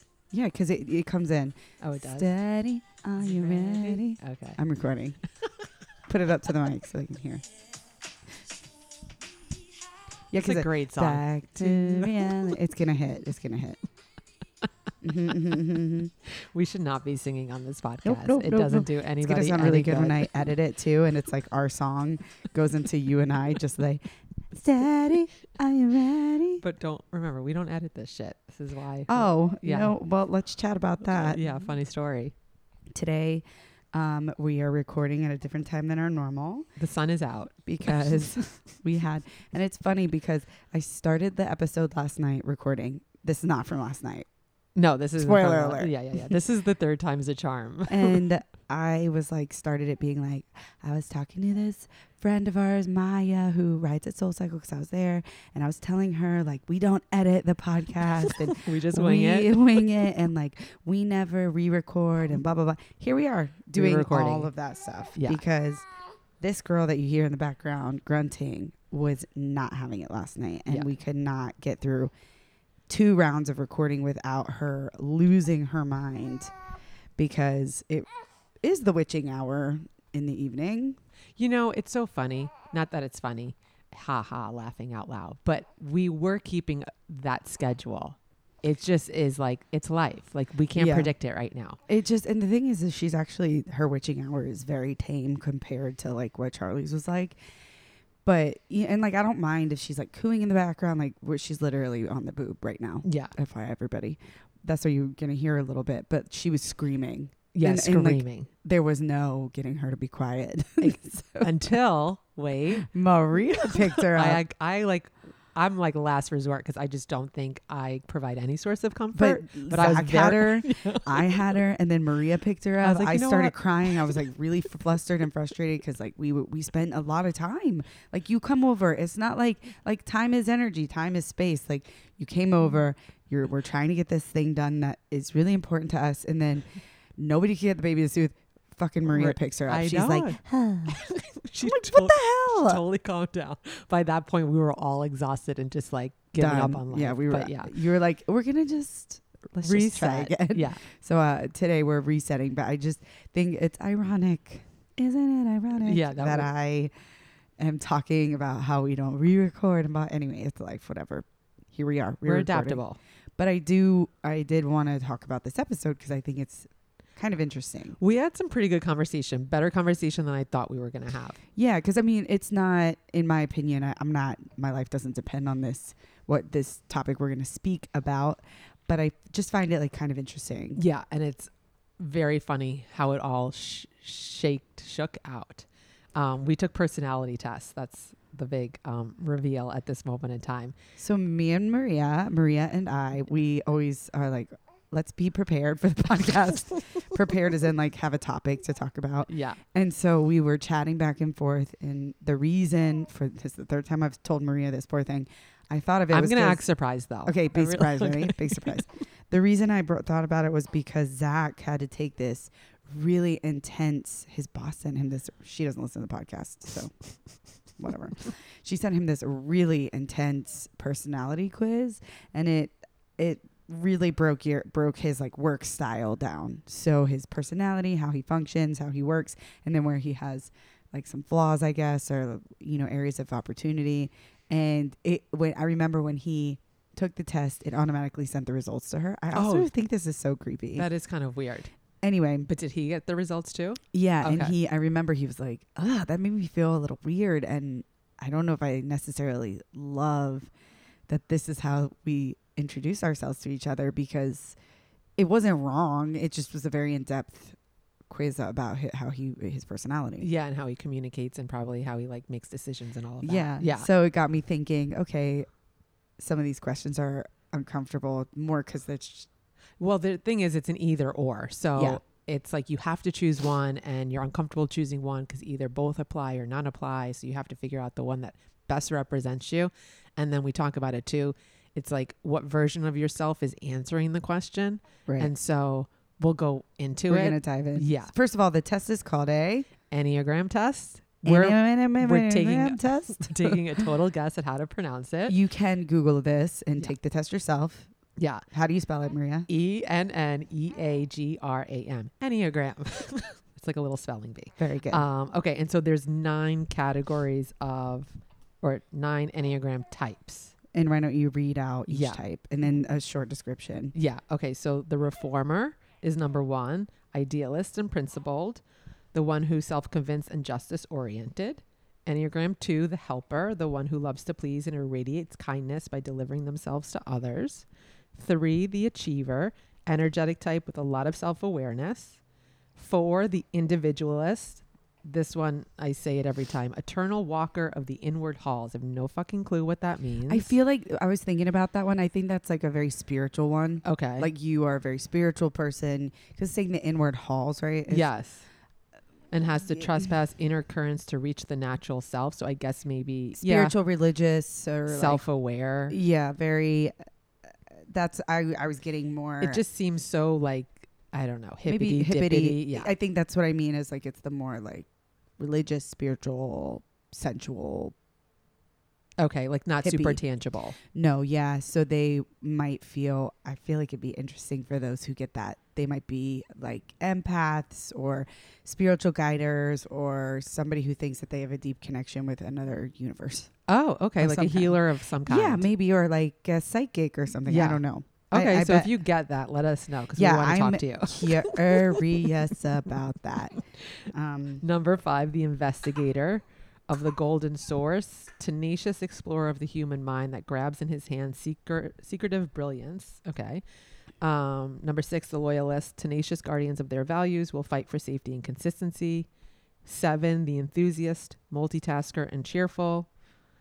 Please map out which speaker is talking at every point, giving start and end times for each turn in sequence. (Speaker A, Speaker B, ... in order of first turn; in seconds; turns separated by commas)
Speaker A: 0.3-5.2, Speaker B: 1.8-2.3, Speaker B: 3.2-4.6, Speaker A: 6.1-7.4, Speaker A: 10.3-13.8, Speaker B: 10.3-12.5, Speaker A: 15.0-16.1, Speaker B: 16.3-20.3, Speaker A: 18.0-24.0, Speaker A: 24.5-26.6, Speaker B: 26.6-29.9, Speaker A: 29.1-31.4, Speaker B: 31.1-32.3, Speaker A: 32.9-36.7, Speaker B: 36.8-38.6, Speaker A: 37.7-44.3, Speaker B: 44.8-48.3, Speaker A: 45.2-46.4, Speaker A: 47.9-65.8, Speaker B: 58.3-59.9, Speaker B: 63.7-64.5, Speaker B: 65.2-65.4, Speaker A: 66.4-72.1, Speaker A: 72.9-76.5, Speaker A: 77.2-78.1, Speaker A: 78.6-81.0, Speaker B: 81.4-91.8, Speaker A: 90.8-91.1, Speaker A: 91.9-97.4, Speaker A: 98.2-111.7, Speaker B: 103.0-103.3, Speaker B: 107.5-108.5, Speaker B: 110.8-112.9, Speaker A: 112.8-114.4, Speaker B: 113.6-121.6, Speaker A: 119.2-141.0, Speaker B: 122.8-124.2, Speaker B: 139.1-147.8, Speaker A: 141.6-142.8, Speaker A: 146.4-156.9, Speaker B: 149.6-150.8, Speaker B: 155.8-156.5, Speaker A: 157.6-162.8, Speaker B: 162.2-163.0, Speaker A: 163.4-168.0, Speaker B: 168.0-171.4, Speaker A: 171.6-180.8, Speaker B: 180.8-190.7, Speaker A: 191.0-206.7, Speaker B: 199.3-199.6, Speaker B: 206.1-209.0, Speaker A: 207.2-216.9, Speaker A: 217.8-240.9, Speaker B: 239.3-239.7, Speaker B: 240.8-241.7, Speaker A: 242.0-242.5, Speaker B: 242.4-244.6, Speaker A: 243.9-250.5, Speaker A: 251.1-254.6, Speaker A: 255.2-257.6, Speaker A: 258.1-260.3, Speaker B: 260.2-263.9, Speaker A: 263.2-265.5, Speaker A: 266.2-269.3, Speaker B: 269.8-288.1, Speaker A: 271.8-272.0, Speaker A: 285.1-285.3, Speaker A: 287.1-289.7, Speaker B: 289.9-295.4, Speaker A: 291.2-293.9, Speaker A: 295.3-297.9, Speaker B: 298.2-298.4, Speaker A: 298.5-299.5, Speaker B: 299.5-310.5, Speaker A: 304.6-305.1, Speaker A: 310.7-313.9, Speaker B: 311.9-312.2, Speaker B: 313.9-332.2, Speaker B: 332.8-340.6, Speaker A: 340.3-348.1, Speaker B: 343.8-344.3, Speaker B: 347.9-348.5, Speaker B: 349.3-353.7, Speaker A: 353.4-355.2, Speaker B: 354.9-356.0, Speaker A: 355.9-356.9, Speaker A: 357.7-359.6, Speaker B: 359.4-362.9, Speaker A: 361.7-364.9, Speaker A: 365.4-367.9, Speaker B: 369.2-370.8, Speaker A: 369.8-370.2, Speaker A: 370.8-383.5, Speaker B: 383.7-385.7, Speaker A: 384.2-389.0, Speaker B: 387.5-392.2, Speaker A: 390.2-393.6, Speaker A: 394.1-394.6, Speaker B: 394.6-403.6, Speaker B: 404.2-409.3, Speaker B: 409.9-413.1